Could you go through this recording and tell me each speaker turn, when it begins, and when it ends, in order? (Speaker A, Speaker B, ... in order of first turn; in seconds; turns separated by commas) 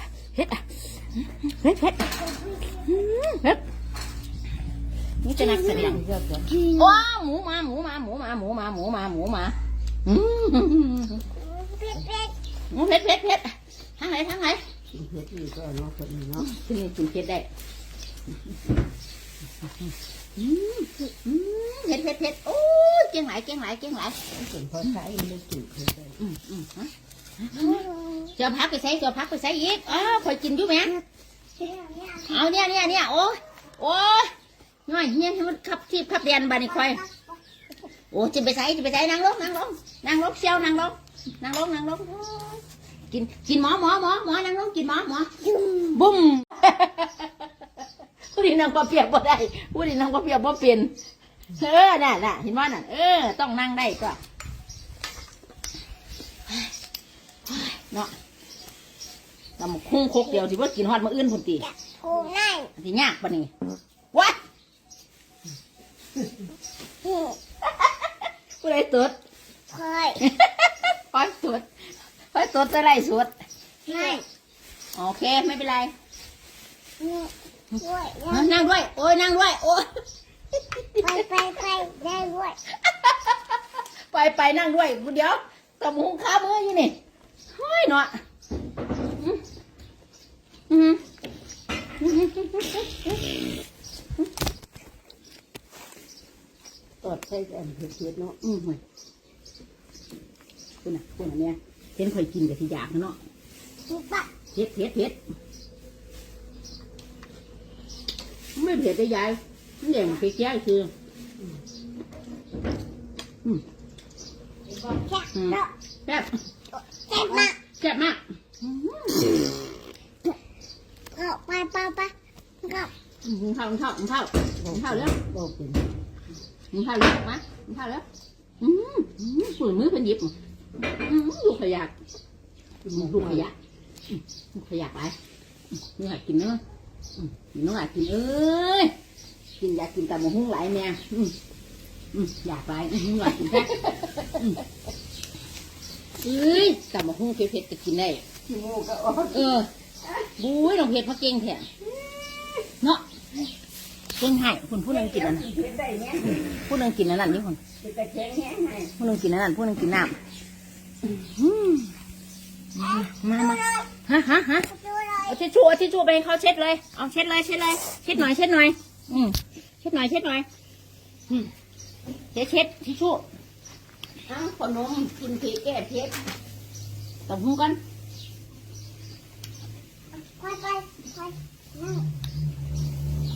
Speaker A: 0.2-2.1, Speaker B: 2.1-2.9, Speaker A: 2.8-3.6, Speaker A: 5.2-6.0, Speaker B: 5.4-6.0, Speaker C: 5.7-6.7, Speaker A: 6.7-11.2, Speaker B: 11.4-12.3, Speaker A: 12.7-14.6, Speaker C: 14.9-16.5, Speaker A: 16.4-17.5, Speaker A: 20.4-24.2, Speaker C: 24.4-26.1, Speaker A: 26.2-27.8, Speaker B: 27.6-28.3, Speaker A: 28.4-31.0, Speaker B: 31.6-32.5, Speaker A: 32.2-34.3, Speaker A: 34.9-37.0, Speaker B: 36.6-37.4, Speaker A: 38.1-42.2, Speaker A: 43.1-45.4, Speaker B: 45.5-46.0, Speaker A: 45.9-47.5, Speaker A: 48.3-50.9, Speaker A: 51.5-54.2, Speaker A: 57.5-58.1, Speaker A: 59.6-61.7, Speaker B: 61.6-62.7, Speaker A: 62.8-63.5, Speaker A: 64.1-64.4, Speaker B: 67.0-67.4, Speaker A: 67.8-68.1, Speaker A: 68.6-69.2, Speaker B: 69.7-70.2, Speaker A: 70.2-71.7, Speaker A: 72.3-73.3, Speaker B: 73.9-74.2, Speaker A: 73.9-74.2, Speaker A: 75.0-75.9, Speaker B: 77.0-78.6, Speaker A: 78.3-79.9, Speaker A: 80.6-81.2, Speaker B: 81.0-82.6, Speaker A: 82.8-87.0, Speaker A: 87.5-88.2, Speaker A: 90.7-91.0, Speaker A: 92.0-93.2, Speaker C: 97.0-98.4, Speaker A: 98.4-98.8, Speaker A: 100.8-103.2, Speaker B: 103.9-104.3, Speaker A: 104.5-105.2, Speaker A: 108.5-110.9, Speaker B: 114.8-115.7, Speaker A: 115.3-116.3, Speaker B: 116.8-117.6, Speaker A: 117.3-119.5, Speaker B: 121.2-122.9, Speaker A: 123.2-125.2, Speaker C: 124.7-125.8, Speaker A: 126.7-128.1, Speaker A: 128.6-131.9, Speaker C: 132.9-133.4, Speaker A: 132.9-133.6, Speaker A: 134.1-135.2, Speaker A: 135.9-136.6, Speaker A: 137.2-138.9, Speaker A: 139.6-141.4, Speaker A: 142.1-144.6, Speaker A: 146.2-148.3, Speaker C: 148.5-149.6, Speaker A: 149.3-149.7, Speaker A: 150.4-151.7, Speaker A: 154.2-155.5, Speaker C: 154.9-156.6, Speaker A: 156.5-157.6, Speaker C: 157.8-158.9, Speaker A: 159.0-160.2, Speaker A: 161.0-161.9, Speaker A: 162.8-164.7, Speaker B: 162.9-163.9, Speaker B: 164.7-165.4, Speaker A: 165.2-170.5, Speaker A: 172.3-173.2, Speaker A: 174.3-176.1, Speaker C: 175.9-176.1, Speaker A: 177.3-177.8, Speaker B: 180.2-182.1